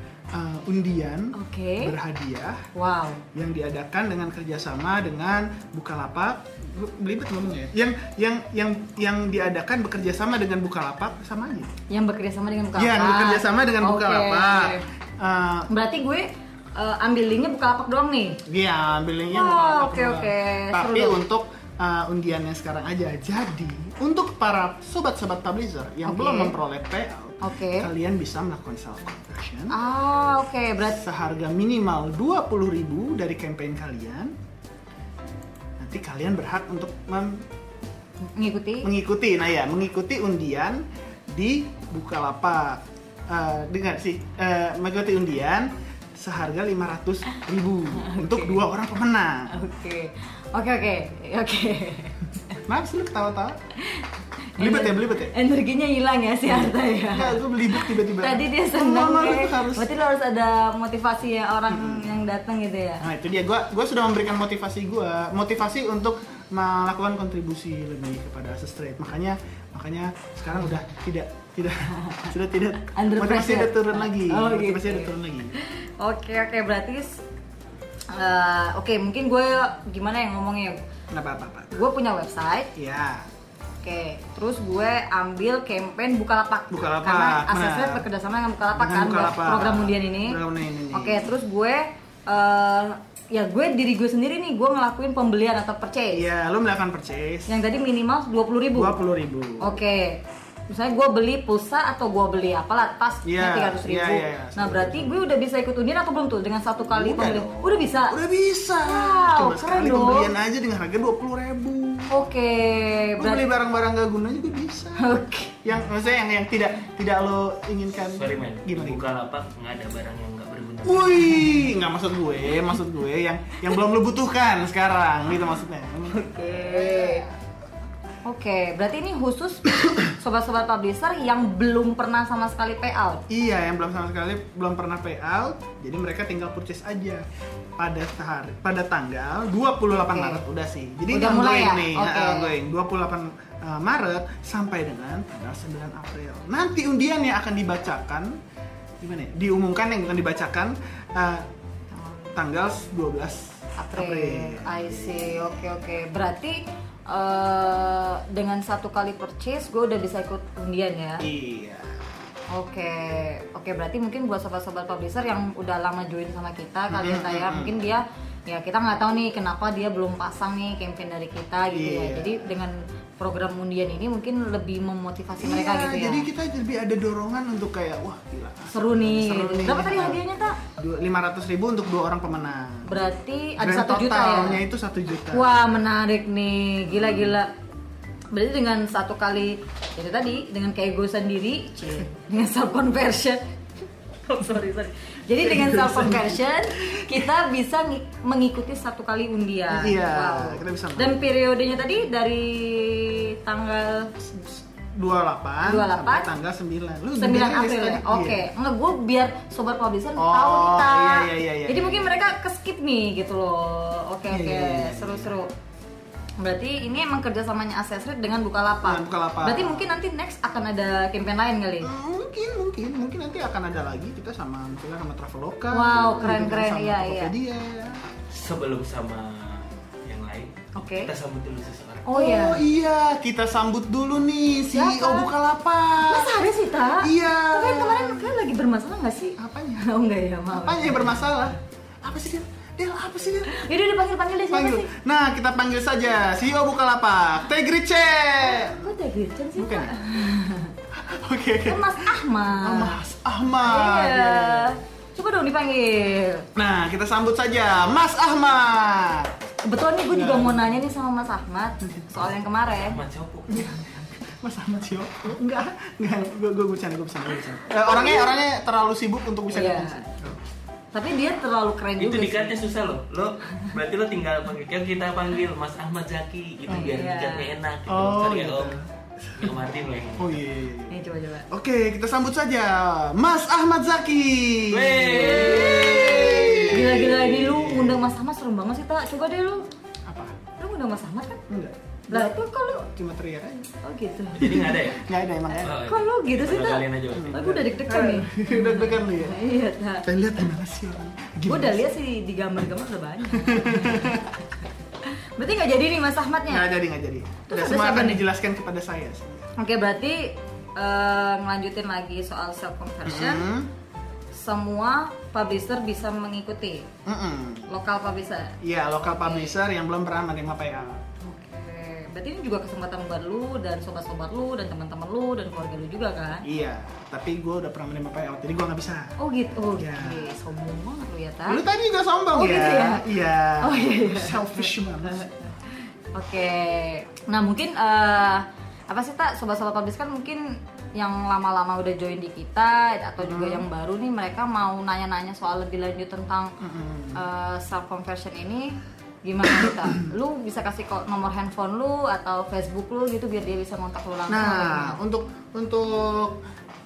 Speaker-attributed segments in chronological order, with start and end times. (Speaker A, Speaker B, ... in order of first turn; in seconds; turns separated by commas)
Speaker A: 0.3-2.6, Speaker B: 1.3-1.9, Speaker B: 2.7-3.2, Speaker A: 3.3-11.7, Speaker B: 11.9-14.8, Speaker A: 12.8-15.7, Speaker B: 15.7-18.4, Speaker A: 18.4-29.7, Speaker B: 19.3-21.2, Speaker B: 26.0-26.5, Speaker B: 27.4-27.9, Speaker B: 29.7-31.0, Speaker A: 30.8-34.3, Speaker A: 35.8-37.4, Speaker B: 38.2-38.9, Speaker A: 38.8-49.5, Speaker B: 47.9-48.6, Speaker B: 49.5-52.6, Speaker A: 52.6-53.6, Speaker B: 53.8-63.0, Speaker A: 54.6-55.3, Speaker A: 57.1-59.9, Speaker A: 61.7-62.2, Speaker A: 63.0-75.5, Speaker B: 72.0-72.3, Speaker B: 72.9-77.2, Speaker B: 78.1-80.8, Speaker A: 81.1-81.8, Speaker B: 81.7-82.7, Speaker A: 82.8-83.3, Speaker B: 83.8-90.4, Speaker A: 86.7-88.0, Speaker A: 88.7-91.3, Speaker B: 90.9-96.2, Speaker A: 96.1-97.6, Speaker B: 97.5-99.0, Speaker A: 98.7-99.8, Speaker B: 99.6-108.2, Speaker A: 103.2-105.3, Speaker A: 106.8-112.2, Speaker B: 108.8-110.3, Speaker B: 112.1-113.4, Speaker A: 113.2-115.1, Speaker B: 115.0-115.6, Speaker A: 115.6-119.1, Speaker C: 118.1-121.5, Speaker A: 120.8-127.3, Speaker B: 126.1-127.3, Speaker B: 128.2-133.2, Speaker A: 133.3-137.2, Speaker A: 137.8-148.4, Speaker B: 140.0-140.4, Speaker B: 141.1-142.5, Speaker A: 149.0-151.5, Speaker B: 151.9-152.3, Speaker A: 152.3-155.6, Speaker B: 153.8-161.2, Speaker A: 161.2-162.2, Speaker B: 162.5-176.3, Speaker A: 166.9-167.8, Speaker A: 171.7-172.7, Speaker A: 175.4-180.2, Speaker B: 178.7-180.6, Speaker A: 180.7-183.0, Speaker B: 182.9-184.6, Speaker A: 183.6-185.6, Speaker B: 185.3-187.5, Speaker A: 186.9-187.3, Speaker B: 188.3-193.4, Speaker B: 194.2-204.1, Speaker A: 195.4-197.2, Speaker A: 199.7-201.3, Speaker A: 204.2-208.5, Speaker B: 205.6-206.3, Speaker B: 207.2-215.5, Speaker A: 210.2-212.2, Speaker A: 214.3-215.3, Speaker B: 216.4-221.9, Speaker A: 218.8-220.0, Speaker A: 221.8-228.0, Speaker B: 225.7-227.3, Speaker C: 228.3-232.1, Speaker B: 230.7-231.1, Speaker B: 232.1-232.6, Speaker A: 232.1-238.3, Speaker B: 234.7-235.3, Speaker B: 236.0-241.3, Speaker A: 239.4-239.8, Speaker A: 240.5-243.5, Speaker B: 243.5-244.9, Speaker A: 244.5-248.9, Speaker B: 248.4-250.7, Speaker A: 249.6-250.0, Speaker A: 250.9-254.8, Speaker B: 251.7-253.0, Speaker B: 253.6-256.4, Speaker A: 256.5-259.5, Speaker B: 259.6-263.0, Speaker A: 260.1-260.8, Speaker A: 261.8-262.1, Speaker C: 262.3-263.8, Speaker A: 263.5-270.4, Speaker B: 267.8-268.4, Speaker B: 269.5-270.0, Speaker B: 270.9-272.6, Speaker C: 272.0-278.8, Speaker A: 276.7-277.0, Speaker B: 276.7-277.6, Speaker A: 277.9-279.6, Speaker C: 279.4-280.4, Speaker A: 280.2-288.1, Speaker B: 280.9-281.5, Speaker C: 284.7-287.2, Speaker B: 285.1-289.7, Speaker A: 290.1-290.4, Speaker B: 290.6-291.4, Speaker A: 291.5-292.4, Speaker B: 292.1-292.9, Speaker A: 292.9-293.7, Speaker B: 293.8-294.6, Speaker C: 294.4-295.1, Speaker A: 294.4-295.8, Speaker B: 295.5-300.1, Speaker C: 295.6-297.4, Speaker A: 297.1-299.4, Speaker A: 300.0-301.9, Speaker B: 301.5-306.7, Speaker A: 303.3-304.3, Speaker A: 306.5-309.5, Speaker B: 307.5-308.2, Speaker B: 309.6-313.5, Speaker A: 313.0-313.7, Speaker B: 314.3-316.9, Speaker A: 317.1-317.7, Speaker B: 317.7-319.6, Speaker A: 318.6-321.0, Speaker B: 321.2-326.4, Speaker A: 326.4-329.1, Speaker B: 329.2-331.6, Speaker A: 329.7-330.3, Speaker A: 331.5-335.3, Speaker B: 332.3-346.5, Speaker A: 343.2-343.6, Speaker A: 346.6-347.2, Speaker B: 347.1-348.7, Speaker B: 349.2-355.0, Speaker A: 349.5-350.1, Speaker A: 354.3-356.4